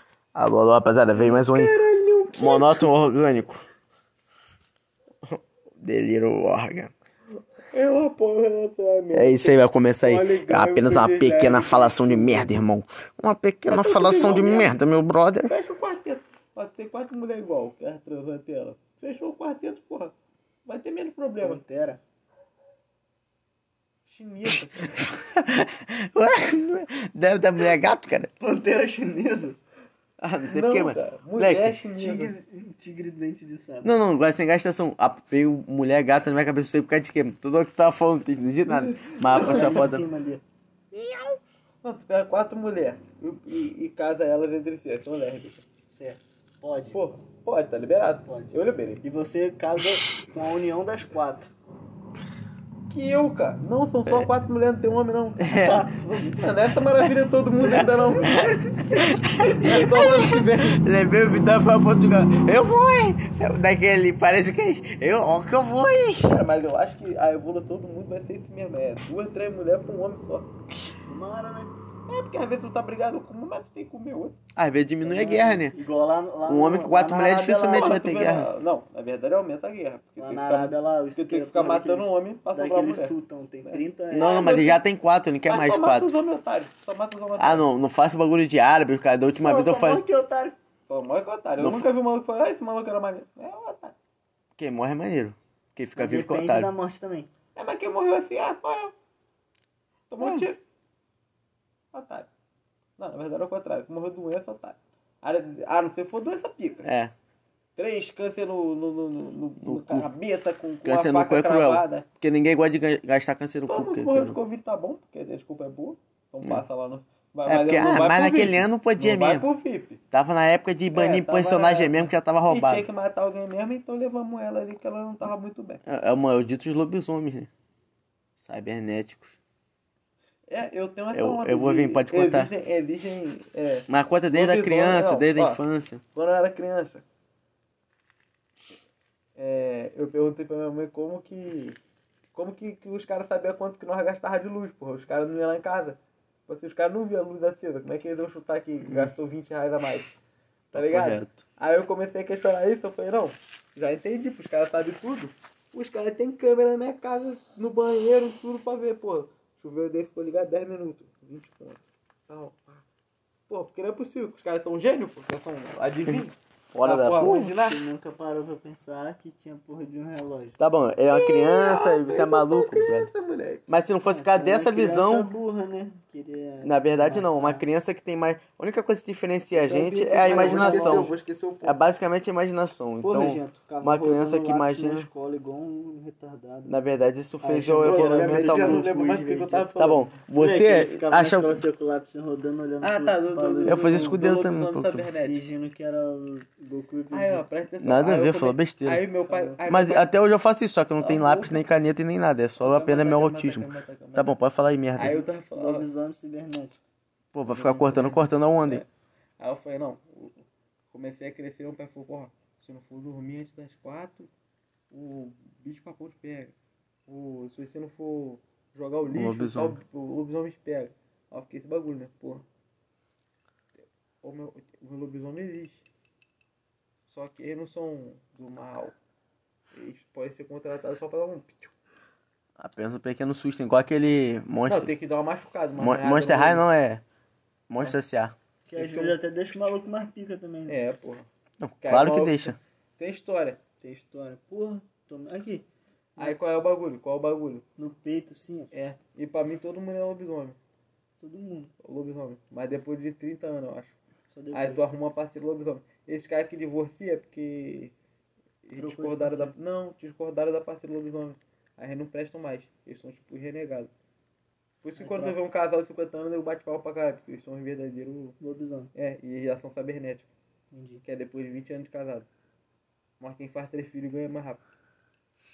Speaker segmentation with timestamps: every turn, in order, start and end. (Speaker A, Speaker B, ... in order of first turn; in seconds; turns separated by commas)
Speaker A: 0.3-1.7, Speaker B: 1.1-2.9, Speaker A: 2.3-3.6, Speaker A: 5.2-6.9, Speaker B: 7.7-12.6, Speaker A: 9.1-15.5, Speaker B: 13.7-14.8, Speaker B: 15.5-20.1, Speaker B: 20.6-21.6, Speaker C: 21.4-22.0, Speaker B: 24.1-25.0, Speaker A: 24.9-28.3, Speaker C: 28.4-29.6, Speaker A: 30.2-32.3, Speaker B: 30.4-32.4, Speaker C: 32.0-34.0, Speaker A: 33.8-40.0, Speaker B: 38.7-39.9, Speaker C: 39.3-40.4, Speaker B: 41.8-45.6, Speaker C: 45.9-47.0, Speaker B: 46.9-49.0, Speaker C: 48.2-51.5, Speaker B: 52.9-55.7, Speaker A: 55.4-55.9, Speaker C: 55.5-56.6, Speaker B: 56.3-60.9, Speaker A: 57.6-66.4, Speaker C: 57.6-58.3, Speaker B: 66.2-70.5, Speaker C: 71.1-71.7, Speaker B: 72.1-74.3, Speaker A: 74.5-75.8, Speaker C: 75.0-78.4, Speaker A: 76.5-78.5, Speaker B: 77.7-84.8, Speaker C: 80.2-84.3, Speaker A: 84.1-86.1, Speaker B: 85.4-87.7, Speaker A: 87.4-90.0, Speaker C: 89.3-90.6, Speaker B: 90.9-94.0, Speaker A: 91.6-91.9, Speaker A: 94.6-96.7, Speaker C: 96.0-97.3, Speaker B: 97.5-98.9, Speaker B: 100.1-100.6, Speaker A: 100.2-100.5, Speaker B: 101.9-102.3, Speaker B: 103.0-106.9, Speaker A: 106.8-107.1, Speaker B: 107.8-112.1, Speaker A: 109.6-110.1, Speaker A: 110.8-114.4, Speaker B: 113.7-120.0, Speaker A: 117.5-119.4, Speaker A: 120.1-122.8, Speaker B: 120.9-125.8, Speaker A: 125.8-127.5, Speaker A: 128.4-129.4, Speaker B: 130.5-135.6, Speaker A: 131.1-132.5, Speaker A: 133.9-136.0, Speaker B: 136.1-137.0, Speaker B: 139.4-141.8, Speaker B: 142.3-150.2, Speaker A: 148.8-149.1, Speaker A: 150.7-151.4, Speaker B: 150.7-162.8, Speaker B: 163.5-167.8, Speaker A: 166.1-167.5, Speaker C: 167.2-170.6, Speaker A: 170.6-173.1, Speaker B: 171.1-173.7, Speaker A: 173.7-175.3, Speaker C: 174.0-177.7, Speaker A: 176.6-181.1, Speaker B: 179.5-181.8, Speaker C: 180.2-181.1, Speaker A: 181.6-185.1, Speaker C: 183.0-186.8, Speaker A: 186.7-188.9, Speaker C: 187.4-189.7, Speaker B: 187.8-190.1, Speaker A: 189.8-191.6, Speaker C: 190.3-194.2, Speaker B: 192.8-195.4, Speaker A: 193.6-195.1, Speaker C: 195.2-197.4, Speaker B: 197.1-200.1, Speaker A: 197.8-199.0, Speaker C: 199.2-199.6, Speaker A: 199.7-205.2, Speaker B: 201.0-201.6, Speaker B: 202.6-204.3, Speaker B: 204.9-205.9, Speaker C: 205.5-206.8, Speaker A: 207.3-208.8, Speaker C: 207.5-208.2, Speaker B: 207.7-208.1, Speaker B: 209.4-214.3, Speaker B: 214.9-216.5, Speaker B: 217.1-222.4, Speaker A: 219.1-219.8, Speaker B: 224.2-225.8, Speaker B: 227.1-228.9, Speaker B: 229.7-231.7, Speaker A: 232.6-234.9, Speaker B: 234.7-236.7, Speaker A: 235.8-237.0, Speaker A: 237.7-238.3, Speaker C: 238.7-240.8, Speaker B: 238.7-239.2, Speaker B: 240.7-241.3, Speaker A: 241.6-242.6, Speaker B: 241.8-243.6, Speaker C: 243.8-245.7, Speaker B: 246.2-247.6, Speaker C: 247.8-248.7, Speaker B: 248.7-250.6, Speaker C: 251.2-251.7, Speaker B: 251.8-253.9, Speaker C: 254.3-254.8, Speaker B: 254.5-257.9, Speaker B: 258.6-263.9, Speaker C: 258.7-259.5, Speaker B: 264.8-268.4, Speaker C: 265.0-265.4, Speaker C: 268.4-268.9, Speaker B: 268.9-270.3, Speaker C: 270.7-271.0, Speaker B: 271.0-272.3, Speaker B: 273.2-274.6